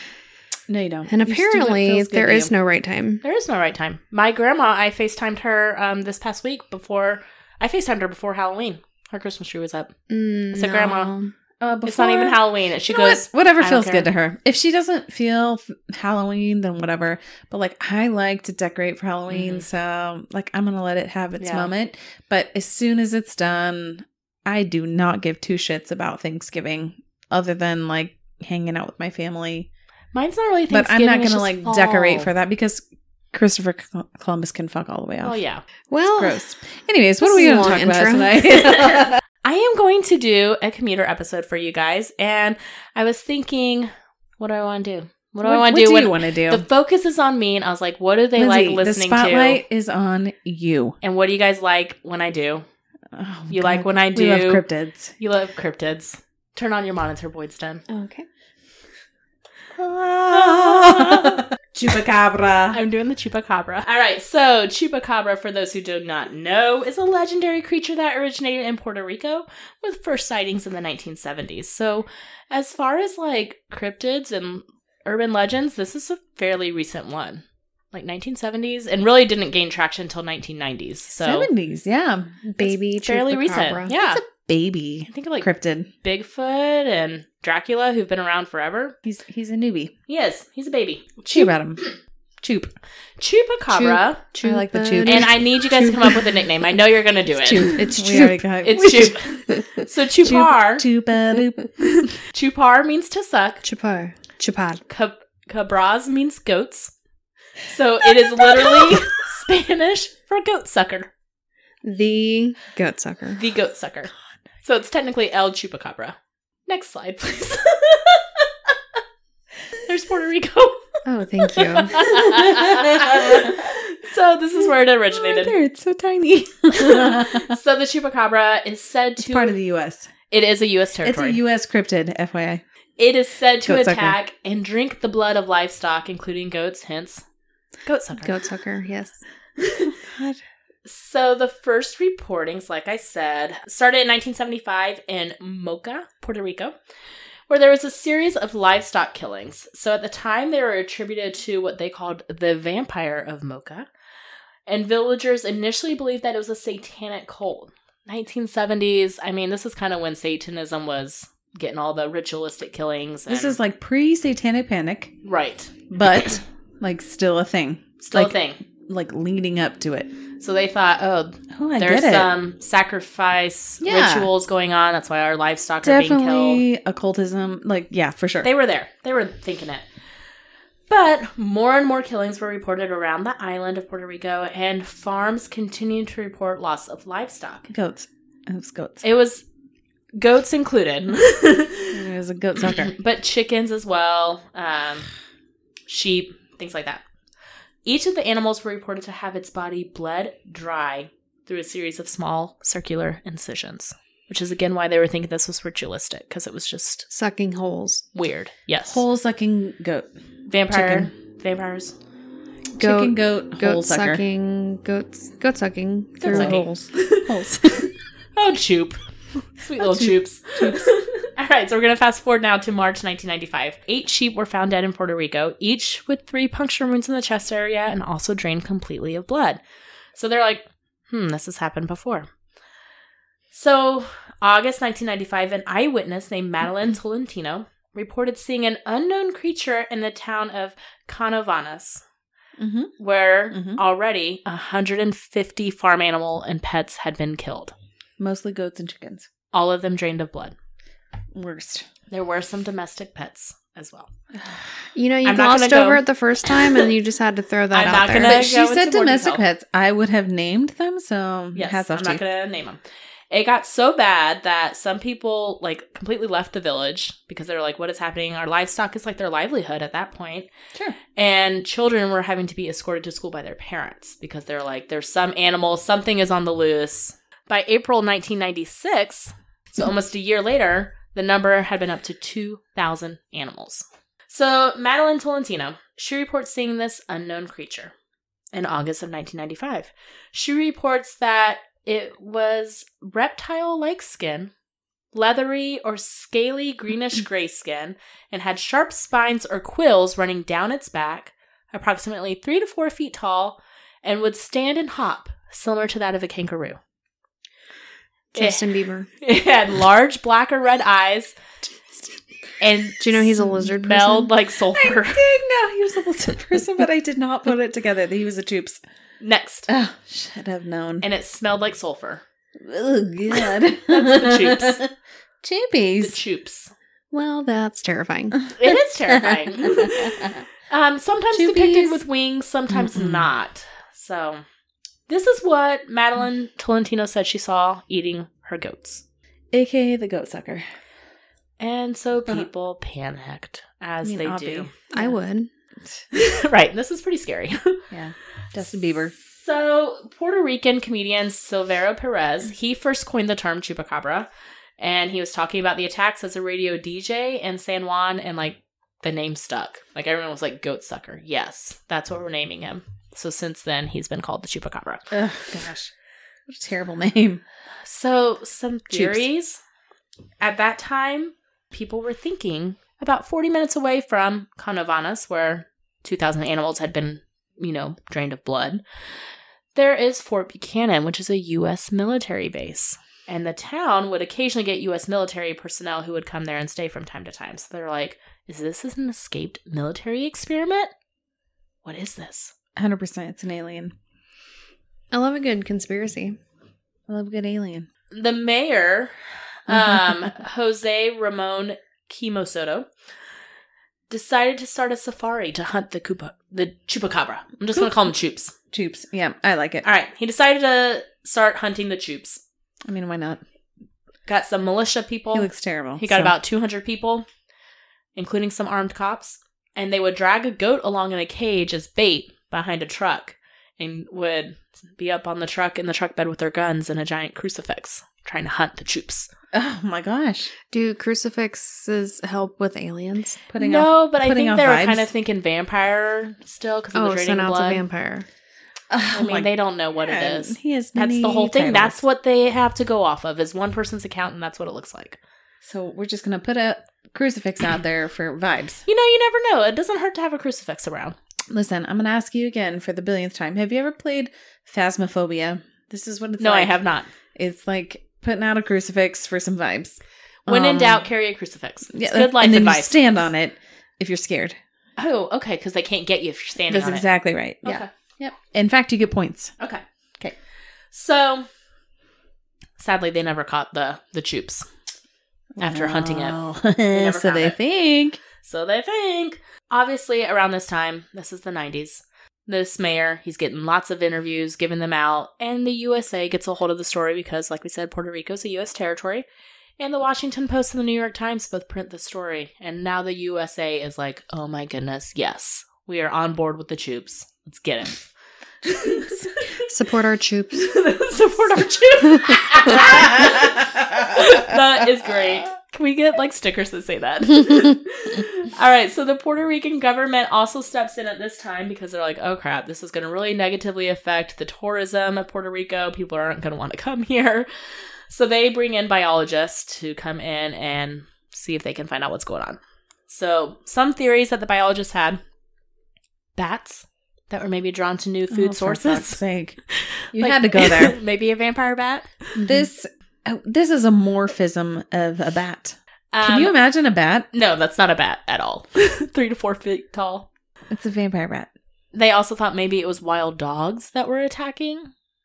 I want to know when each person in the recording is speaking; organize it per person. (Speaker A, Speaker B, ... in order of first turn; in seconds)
Speaker A: 0.7-2.5, 11.6-29.7, 30.7-35.4, 36.1-39.2, 45.4-46.6, 48.4-51.0, 53.1-55.1, 59.8-62.8, 81.2-82.4, 83.9-85.9, 89.0-89.9, 91.2-91.8, 92.4-92.7, 94.4-95.4, 97.5-99.2, 100.2-102.1, 108.5-109.0, 122.1-123.6, 125.1-127.5, 129.2-130.1, 131.0-132.6, 133.6-134.2, 140.0-140.4, 163.3-165.1, 165.9-170.1, 171.5-172.3, 173.8-174.3, 175.8-178.5, 187.7-189.0, 191.9-192.9, 208.9-210.1, 210.7-211.1, 212.8-214.2, 216.2-217.8, 219.8-220.9, 242.6-242.9, 243.5-243.8, 248.2-249.3, 251.3-251.9, 254.4-254.6, 258.1-262.2, 314.7-318.8, 319.7-321.1, 322.6-324.9, 325.4-326.2, 328.6-330.4, 331.3-332.0, 332.7-333.3, 339.5-340.6, 344.0-345.1, 347.9-349.1, 365.1-365.9, 366.5-367.4, 368.9-369.2, 392.8-393.9, 397.1-397.9, 399.7-400.1, 408.7-409.9, 412.9-413.4, 415.3-416.3, 429.5-430.5, 433.5-435.1, 438.9-439.5, 440.0-442.0, 445.6-448.8, 451.5-456.8, 457.3-461.1, 461.9-464.6, 466.7-469.5, 475.6-478.2, 498.8-499.1, 502.9-504.5, 528.3-529.6, 530.1-531.0, 532.4-537.3, 540.7-541.5
Speaker B: 1.1-3.2, 10.1-11.3, 35.9-36.4, 37.2-38.4, 57.9-58.2, 82.4-83.9, 93.7-96.3, 97.5-98.4, 103.6-104.8, 111.8-113.4, 121.0-122.1, 138.2-139.2, 207.1-208.1, 212.8-216.9, 254.9-258.4, 308.3-309.1, 313.0-314.3, 327.1-328.4, 344.9-345.5, 395.1-396.4, 430.7-433.4, 436.9-438.2, 499.6-500.8
Speaker C: 3.2-9.9, 10.5-11.1, 11.8-14.1, 19.3-19.6, 21.4-21.7, 30.1-32.3, 35.2-35.6, 38.7-49.6, 51.0-52.6, 53.5-54.6, 55.2-57.8, 60.3-61.5, 62.7-81.5, 82.6-84.2, 85.1-85.5, 86.0-89.0, 90.1-91.9, 93.2-94.2, 95.0-97.8, 98.6-100.8, 102.3-103.6, 104.9-106.9, 107.7-111.1, 113.3-114.1, 114.6-116.2, 116.7-118.5, 119.8-120.8, 121.5-125.5, 126.7-129.5, 130.3-131.4, 133.0-137.2, 137.8-138.4, 139.6-139.9, 140.8-146.8, 147.5-153.9, 154.7-163.6, 165.2-165.7, 168.0-168.6, 170.4-176.6, 178.4-179.8, 180.9-187.7, 189.0-189.4, 190.1-192.0, 192.7-195.1, 195.9-197.0, 197.8-207.1, 208.1-209.0, 210.5-211.9, 216.2-219.0, 219.5-229.6, 230.1-232.3, 233.5-242.0, 243.0-247.7, 249.5-250.6, 252.1-254.1, 255.2-256.9, 257.7-259.4, 261.5-270.5, 271.1-287.9, 288.5-294.5, 295.1-306.8, 308.4-311.3, 312.6-315.2, 319.2-319.7, 321.0-322.2, 323.9-324.8, 326.0-326.7, 328.5-334.4, 335.1-339.0, 341.6-344.7, 346.1-347.8, 349.1-365.1, 367.8-369.6, 370.4-378.8, 379.7-390.9, 391.8-392.5, 398.1-399.1, 399.7-402.9, 404.1-408.5, 409.8-412.4, 414.2-417.2, 418.1-429.3, 433.6-437.8, 439.1-445.2, 448.9-451.2, 456.4-457.1, 460.4-463.0, 465.0-467.1, 467.6-467.9, 470.9-471.5, 472.8-474.7, 475.6-476.4, 476.9-477.6, 478.4-489.2, 489.8-498.0, 498.6-499.7, 500.6-517.5, 518.1-525.2, 526.4-532.4, 536.1-536.5, 537.3-540.3, 541.9-544.9